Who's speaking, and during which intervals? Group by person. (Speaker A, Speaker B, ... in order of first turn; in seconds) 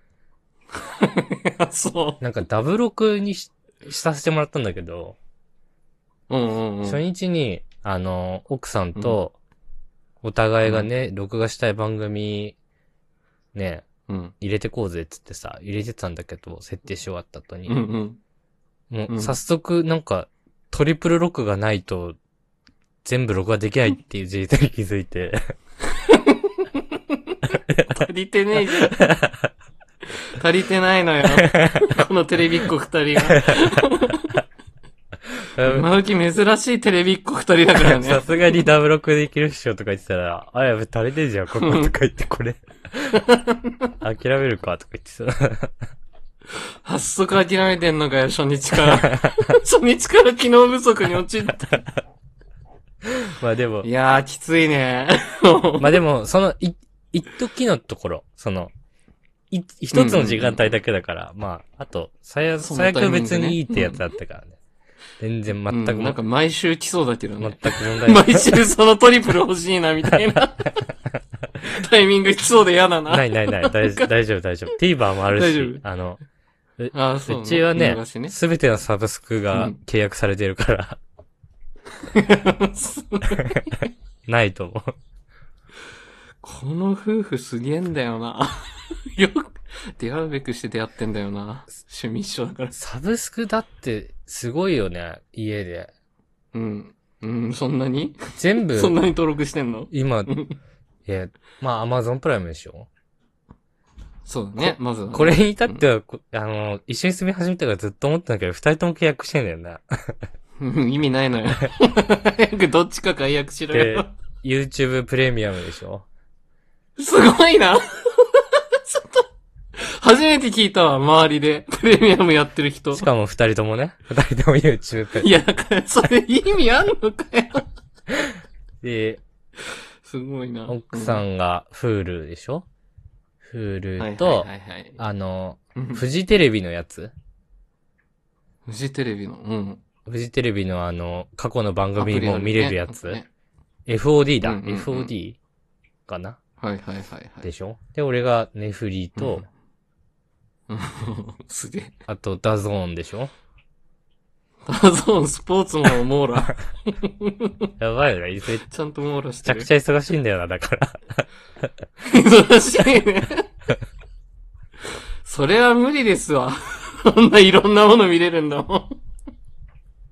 Speaker A: 0.8-2.2, 6.3-7.0, 14.1-14.3, 17.7-18.2, 19.1-19.4, 25.9-29.1, 30.3-34.3, 35.7-38.2, 41.6-41.9, 43.2-43.9, 46.8-51.9, 53.8-56.0, 59.9-60.7, 62.6-64.0, 65.7-70.8, 71.6-74.1, 75.3-75.8, 76.9-78.3, 82.0-83.8, 86.4-92.7, 96.5-100.6, 104.2-105.8, 110.6-114.1, 117.0-119.2, 119.8-123.0, 125.2-127.7, 130.0-131.2, 134.0-135.0, 135.8-136.0, 138.7-139.8, 141.9-143.3, 144.4-145.1, 146.6-147.5, 149.2-149.4, 150.7-151.9, 154.7-157.7, 158.7-159.7, 162.0-163.4, 165.2-168.9
Speaker B: 2.2-5.2, 6.8-9.3, 10.2-12.6, 13.5-13.8, 14.4-17.8, 18.9-22.2, 23.0-25.5, 27.7-28.0, 28.9-29.5, 35.5-35.9, 37.8-43.2, 44.0-45.7, 53.3-53.9, 55.8-58.7, 59.5-64.5, 65.2-66.2, 67.4-68.6, 73.1-76.2, 76.8-81.0, 84.2-84.9, 92.7-95.9, 98.4-99.0, 99.9-100.3, 101.0-102.9, 104.6-110.2, 113.7-116.0, 122.9-125.3, 128.8-129.2, 130.7-132.7, 133.4-137.1, 140.1-143.2, 143.9-145.4, 146.1-146.4, 147.4-149.4, 152.1-153.3, 157.8-158.7, 159.4-161.2